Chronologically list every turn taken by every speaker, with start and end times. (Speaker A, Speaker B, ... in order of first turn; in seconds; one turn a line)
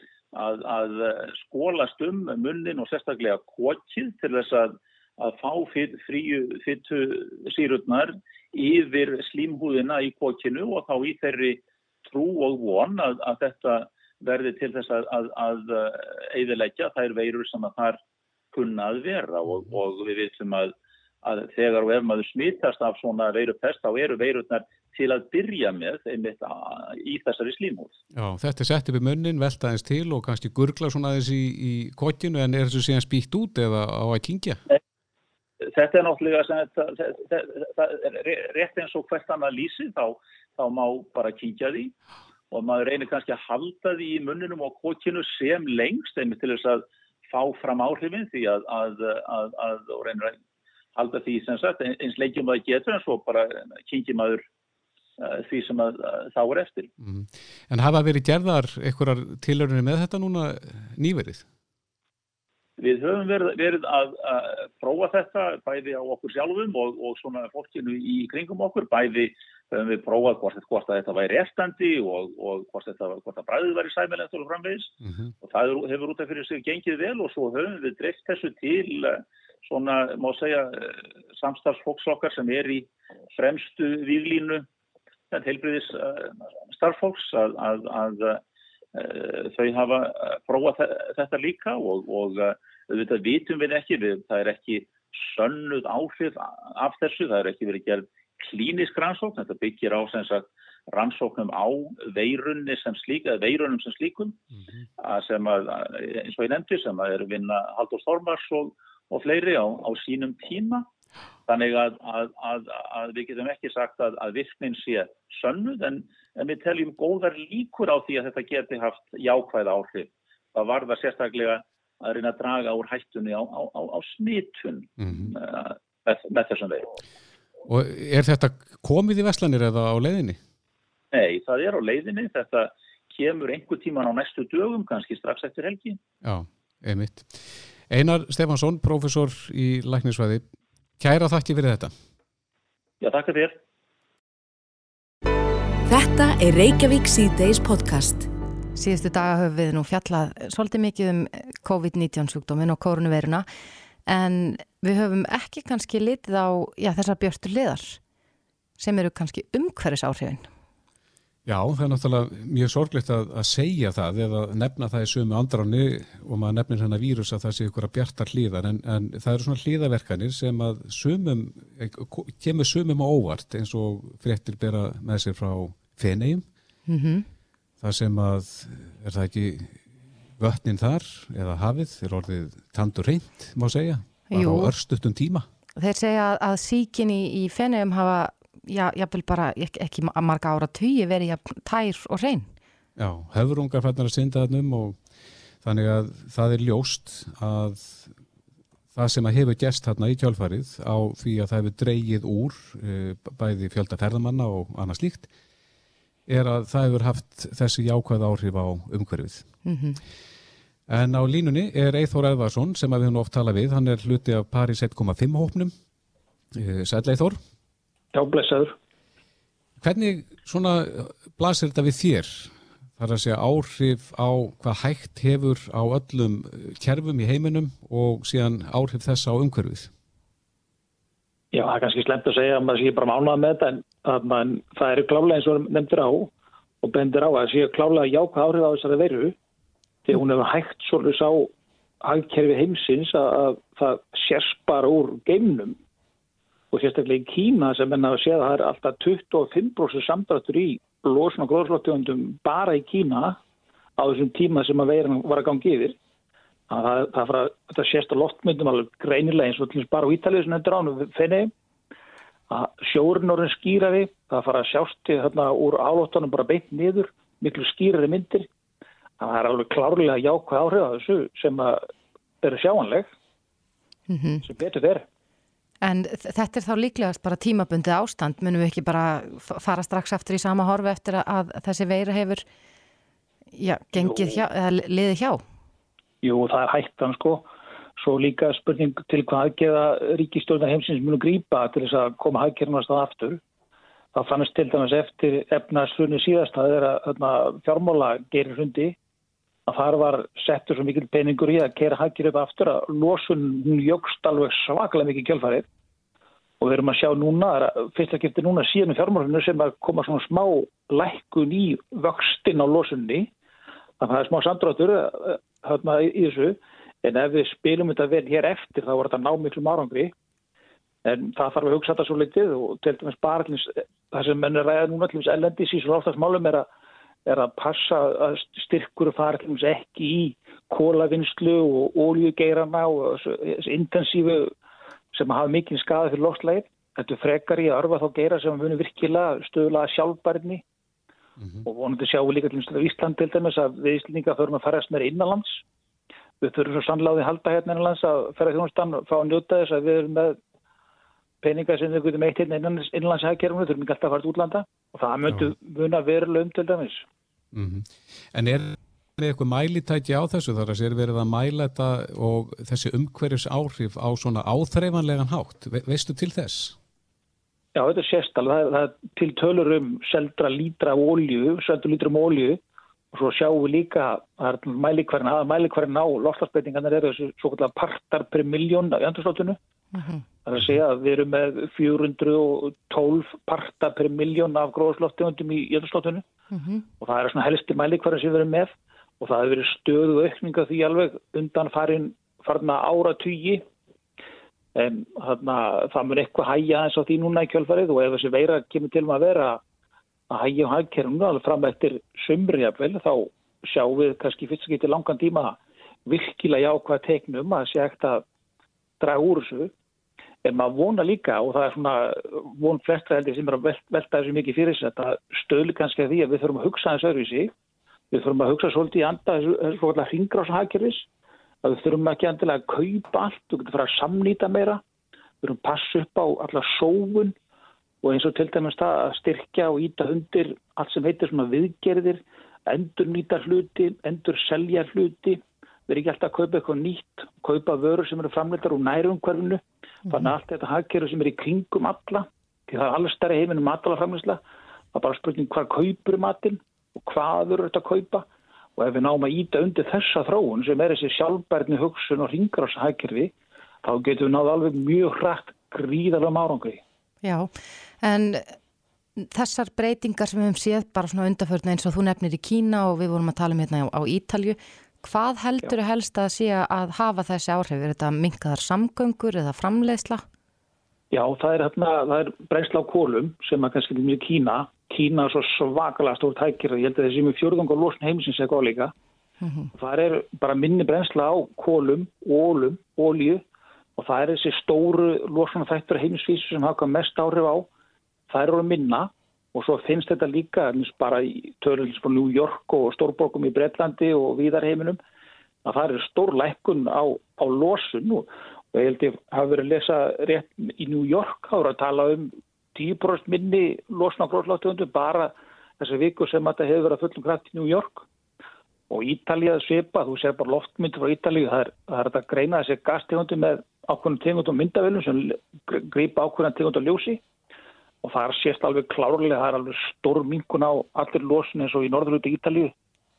Speaker A: 0.3-18.0
Speaker A: 18.5-27.9
Speaker B: 28.1-34.6
Speaker A: 35.7-41.9
Speaker A: 42.5-50.4
Speaker A: 51.0-54.4
Speaker A: 55.2-56.9
Speaker B: 57.0-61.4
Speaker A: 62.8-84.7
Speaker B: 75.0-75.3
Speaker A: 85.3-88.4
Speaker A: 88.9-104.4
Speaker A: 105.0-110.9
Speaker A: 111.5-126.9
Speaker B: 125.0-125.3
Speaker B: 127.7-130.4
Speaker A: 131.1-136.0
Speaker B: 136.2-140.4
Speaker B: 141.0-141.9
Speaker A: 143.0-143.6
Speaker C: 145.9-148.3
Speaker D: 148.8-153.4
Speaker D: 154.1-158.0
Speaker D: 158.8-160.4
Speaker B: 161.4-176.4
Speaker D: 176.9-177.3
Speaker B: 177.8-179.8
Speaker B: 180.4-185.4
Speaker D: 184.3-184.7
Speaker D: 185.8-192.5
Speaker B: 193.0-195.0
Speaker B: 195.6-198.1
Speaker B: 198.9-205.3
Speaker B: 206.3-209.4
Speaker D: 209.7-210.0
Speaker B: 210.9-215.7
Speaker B: 216.5-217.4
Speaker E: 218.1-218.8
Speaker B: 219.8-229.9
Speaker E: 231.5-236.3
Speaker E: 236.8-239.3
Speaker E: 240.1-241.5
Speaker E: 242.0-245.8
Speaker E: 246.7-253.4
Speaker E: 254.0-255.9
Speaker E: 256.7-261.5
Speaker E: 262.5-268.5
Speaker E: 269.2-271.8
Speaker E: 272.4-273.1
Speaker D: 274.1-274.4
Speaker E: 274.4-275.0
Speaker D: 275.8-282.4
Speaker D: 283.6-285.4
Speaker E: 284.0-284.4
Speaker E: 286.2-293.4
Speaker E: 294.1-298.9
Speaker E: 299.7-305.6
Speaker E: 306.6-313.3
Speaker E: 314.0-320.1
Speaker E: 321.0-326.7
Speaker E: 327.2-334.5
Speaker E: 335.1-340.6
Speaker E: 341.6-345.6
Speaker E: 346.4-350.4
Speaker E: 351.4-357.1
Speaker B: 357.5-366.8
Speaker E: 367.7-372.6
Speaker E: 373.1-379.6
Speaker D: 379.9-380.2
Speaker E: 380.4-386.2
Speaker D: 386.5-386.9
Speaker E: 387.0-393.6
Speaker E: 394.7-399.6
Speaker E: 400.3-408.2
Speaker E: 409.0-409.7
Speaker E: 410.4-417.5
Speaker E: 418.1-421.1
Speaker E: 421.6-424.8
Speaker E: 425.4-427.3
Speaker E: 428.0-444.4
Speaker E: 444.9-448.2
Speaker E: 448.8-456.8
Speaker D: 457.2-458.6
Speaker D: 459.2-470.2
Speaker E: 471.1-478.9
Speaker D: 479.4-479.7
Speaker E: 479.7-483.4
Speaker E: 484.0-487.7
Speaker E: 488.3-495.0
Speaker E: 495.6-508.1
Speaker E: 508.9-517.2
Speaker E: 518.0-522.7